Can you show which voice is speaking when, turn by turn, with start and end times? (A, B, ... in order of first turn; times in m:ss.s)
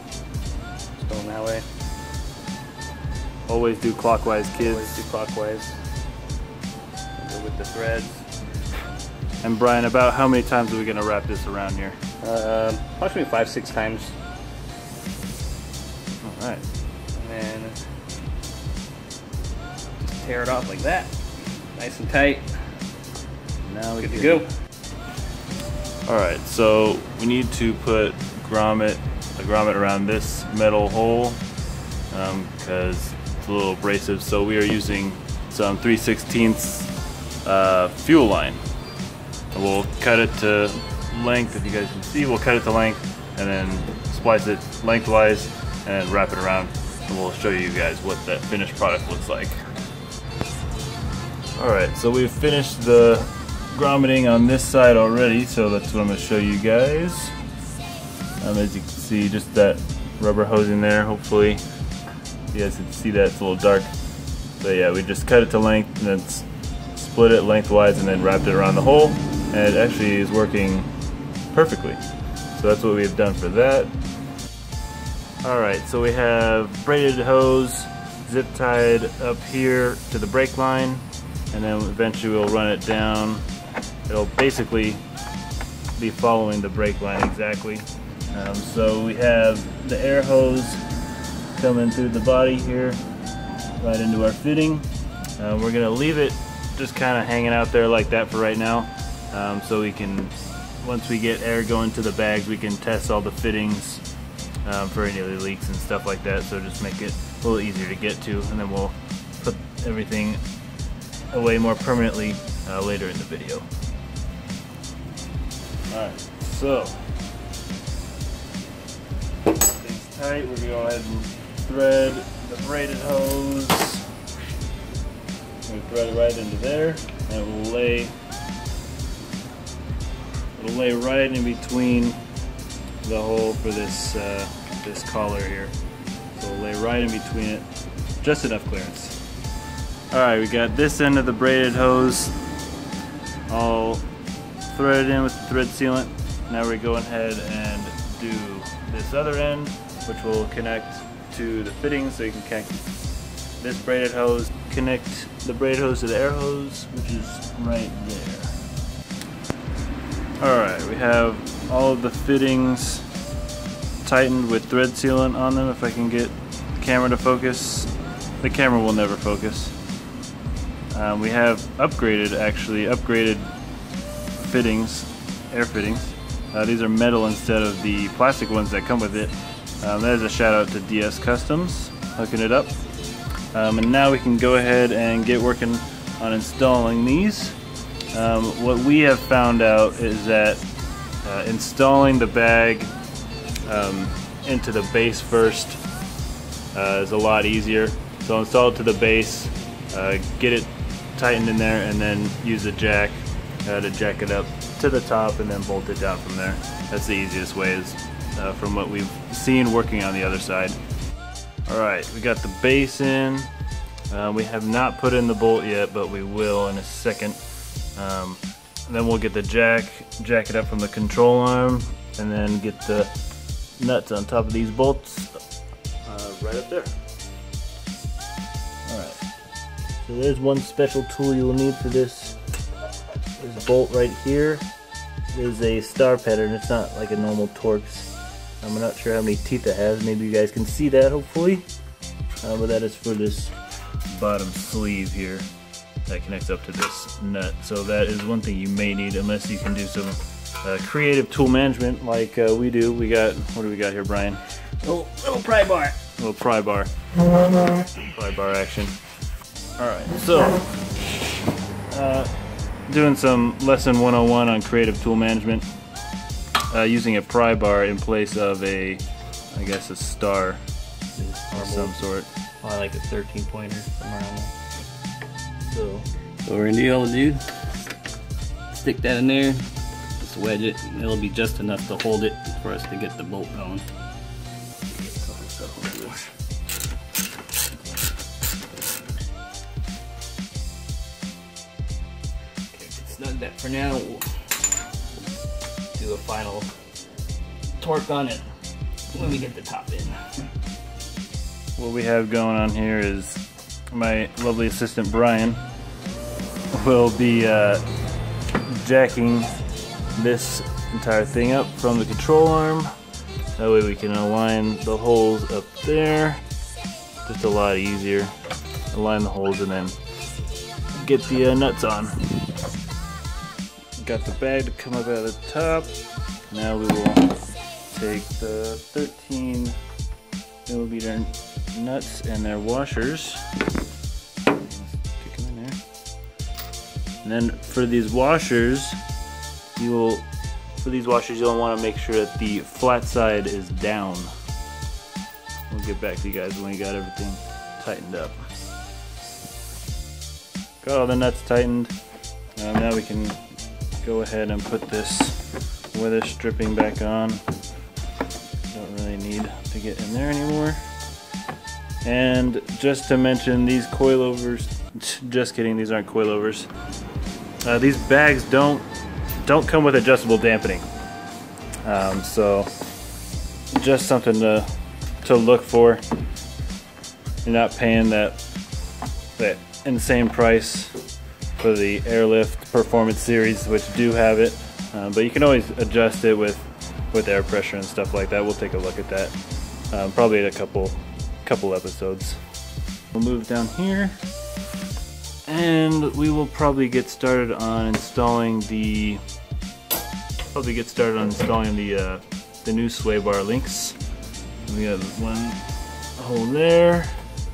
0:01.0-0:01.6 A
0:03.5-0:05.0 B
0:04.5-0:05.7 A
0:07.2-0:08.2 A
0:09.4-0:12.0 B
0:12.2-0:14.1 A
0:16.2-0:16.6 B
0:17.1-0:17.7 A
0:20.0-0:22.5 A
0:23.6-0:24.5 B
0:24.0-0:24.4 A
0:26.0-0:31.4 B
0:32.1-0:36.9 B
0:37.4-0:38.6 B
0:39.5-0:49.6 B
0:51.6-0:57.3 B
0:58.4-1:01.6 B
1:02.5-1:03.9 B
1:04.6-1:10.9 B
1:11.5-1:12.0 B
1:12.5-1:13.9 B
1:15.4-1:23.4 B
1:24.1-1:25.0 B
1:26.0-1:30.8 B
1:31.5-1:33.0 B
1:33.8-1:44.0 B
1:44.6-1:50.4 B
1:51.3-1:53.7 B
1:55.9-1:57.0 B
1:59.6-2:04.0 B
2:05.6-2:08.1 B
2:10.6-2:12.2 B
2:13.0-2:15.7 B
2:16.3-2:17.6 B
2:18.2-2:19.2 B
2:20.1-2:22.3 B
2:23.5-2:24.0 B
2:24.7-2:32.9 B
2:33.6-2:38.6 B
2:40.4-2:43.0 B
2:44.0-2:47.9 B
2:48.4-2:49.7 B
2:50.9-2:53.5 B
2:54.4-3:02.7 B
3:03.5-3:07.6 B
3:08.1-3:10.6 B
3:11.2-3:12.9 B
3:13.6-3:15.8 B
3:16.7-3:30.8 B
3:31.7-3:33.5 B
3:34.1-3:37.4 B
3:37.9-3:43.1 B
3:43.8-3:45.4 B
3:46.0-3:46.9 B
3:48.9-3:49.2 B
3:50.0-3:52.4 B
3:53.4-3:54.6 B
3:55.3-3:58.1 B
3:58.6-4:01.6 B
4:02.4-4:03.5 B
4:04.1-4:05.5 B
4:06.1-4:14.4 B
4:14.8-4:15.9 A
4:16.2-4:17.0 B
4:17.6-4:19.0 B
4:19.8-4:20.7 B
4:21.9-4:22.3 B
4:22.9-4:25.7 B
4:26.7-4:30.6 B
4:31.2-4:32.0 A
4:31.5-4:32.3 B
4:32.6-4:34.5 A
4:35.7-4:36.0 B
4:36.4-4:37.5 A
4:38.7-4:39.7 A
4:40.2-4:43.8 A
4:44.9-4:46.2 B
4:52.7-4:54.2 A
4:55.9-4:56.7 A
4:57.8-4:58.4 A
4:59.1-5:00.2 A
5:01.8-5:05.6 B
5:06.7-5:07.8 B
5:08.6-5:09.5 B
5:10.1-5:12.9 B
5:13.6-5:16.4 B
5:17.2-5:18.3 B
5:18.9-5:20.0 B
5:21.0-5:22.4 B
5:24.0-5:25.9 B
5:26.5-5:27.4 B
5:27.9-5:29.8 B
5:30.6-5:33.4 B
5:34.5-5:35.8 B
5:37.2-5:39.0 B
5:39.8-5:40.2 B
5:40.8-5:44.3 B
5:45.7-5:48.4 B
5:50.8-5:51.9 B
5:52.6-5:53.4 B
5:54.0-5:55.4 B
5:55.9-5:57.4 B
5:58.7-6:00.8 B
6:02.0-6:06.7 B
6:07.6-6:08.8 B
6:09.4-6:10.8 B
6:11.8-6:12.7 B
6:13.7-6:14.7 B
6:15.2-6:16.0 B
6:17.4-6:18.4 B
6:19.4-6:21.0 B
6:21.6-6:29.3 B
6:29.9-6:32.4 B
6:33.1-6:34.2 B
6:35.4-6:39.2 B
6:40.5-6:44.0 B
6:44.6-6:45.6 B
6:46.2-6:47.1 B